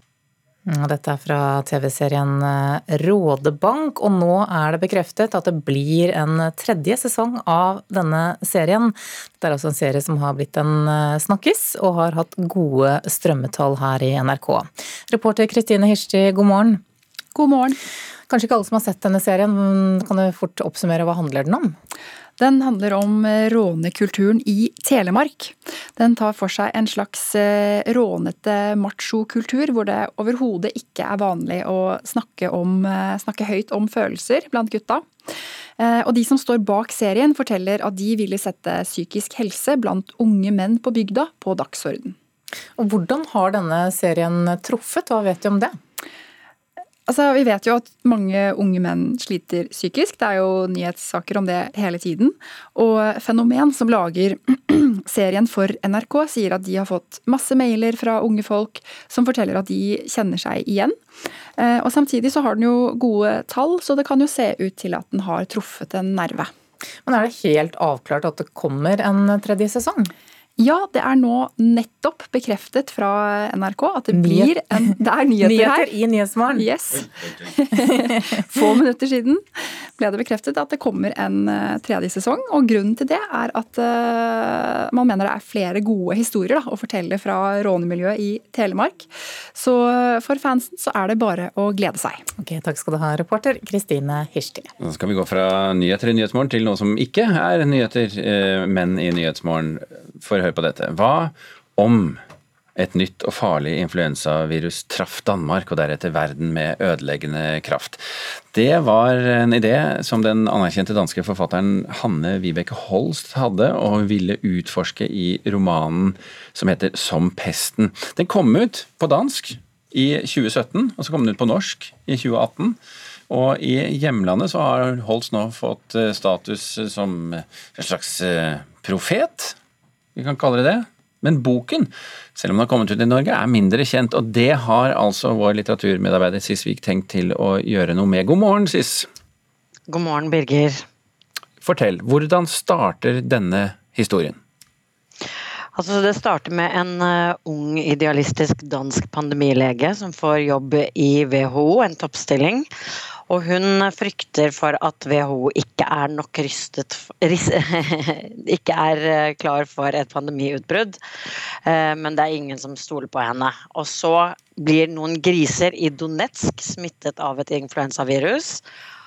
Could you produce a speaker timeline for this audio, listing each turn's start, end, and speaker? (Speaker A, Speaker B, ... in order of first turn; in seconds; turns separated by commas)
Speaker A: 0.7-16.8, Speaker B: 17.3-17.8, Speaker A: 18.3-21.8, Speaker B: 22.4-35.0, Speaker B: 35.8-42.1, Speaker A: 42.8-45.8, Speaker B: 47.1-61.0, Speaker B: 61.6-66.5, Speaker A: 67.0-70.1, Speaker B: 70.6-75.9, Speaker A: 74.1-76.7, Speaker B: 76.5-92.2, Speaker A: 77.7-78.4, Speaker A: 92.4-94.7, Speaker C: 94.8-102.2, Speaker C: 102.8-122.8, Speaker C: 123.3-129.6, Speaker C: 130.2-139.1, Speaker D: 139.9-140.8, Speaker C: 141.6-144.4, Speaker D: 145.8-152.7, Speaker D: 153.3-161.0, Speaker D: 161.6-168.6